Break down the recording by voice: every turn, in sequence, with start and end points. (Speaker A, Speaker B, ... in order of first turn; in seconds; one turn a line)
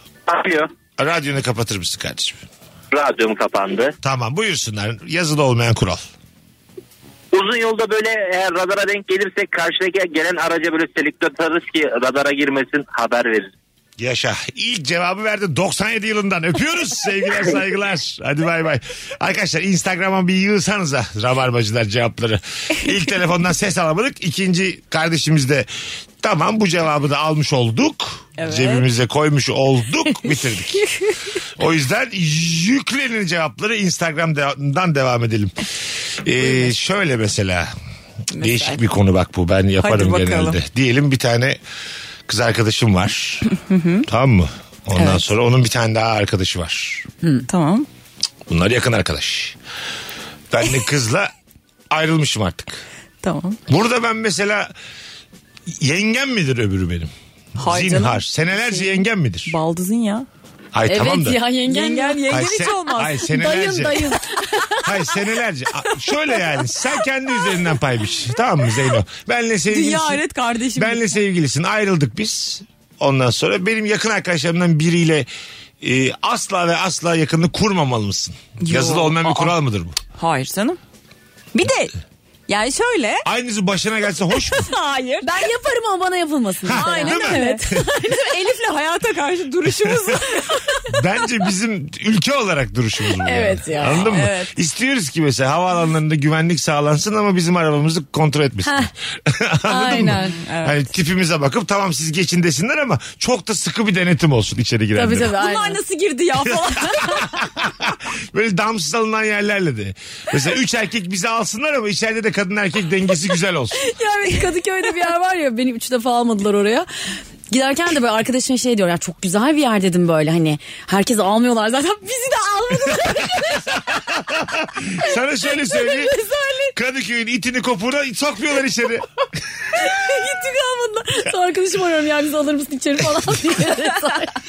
Speaker A: 0.3-0.7
Speaker B: 1.0-2.4
Speaker A: 2.9-3.9
Speaker B: 4.0-6.0
Speaker A: 7.3-13.5
Speaker B: 14.0-25.7
Speaker B: 26.2-30.9
Speaker C: 28.4-28.9
Speaker B: 31.6-35.5
Speaker B: 36.2-37.7
Speaker C: 36.4-36.7
Speaker C: 38.3-38.8
Speaker B: 38.4-41.6
Speaker C: 39.8-40.6
Speaker B: 42.3-43.5
Speaker C: 43.5-44.0
Speaker B: 44.0-47.0
Speaker C: 45.0-45.2
Speaker C: 47.5-47.9
Speaker B: 48.5-49.6
Speaker B: 50.5-51.3
Speaker B: 51.9-52.8
Speaker C: 53.2-53.6
Speaker B: 53.7-54.7
Speaker B: 55.8-59.5
Speaker C: 57.6-60.3
Speaker B: 60.7-61.4
Speaker D: 60.9-62.3
Speaker C: 61.7-63.2
Speaker B: 62.3-64.1
Speaker D: 63.2-65.1
Speaker B: 64.8-70.2
Speaker C: 69.7-71.1
Speaker B: 70.7-75.3
Speaker B: 75.8-80.0
Speaker C: 78.6-79.5
Speaker C: 80.2-80.8
Speaker C: 81.5-81.9
Speaker C: 82.5-83.2
Speaker B: 83.2-84.7
Speaker C: 84.3-85.5
Speaker D: 85.2-88.3
Speaker B: 86.6-87.8
Speaker C: 86.7-90.8
Speaker B: 90.9-105.3
Speaker D: 93.2-94.1
Speaker C: 94.0-94.5
Speaker D: 99.7-100.4
Speaker C: 99.9-100.9
Speaker D: 104.9-105.8
Speaker C: 105.4-107.4
Speaker B: 107.0-113.8
Speaker D: 113.8-116.9
Speaker C: 114.2-114.5
Speaker D: 117.5-124.4
Speaker B: 123.9-126.1
Speaker D: 125.5-126.7
Speaker B: 126.7-129.1
Speaker C: 129.8-131.2
Speaker D: 129.8-134.4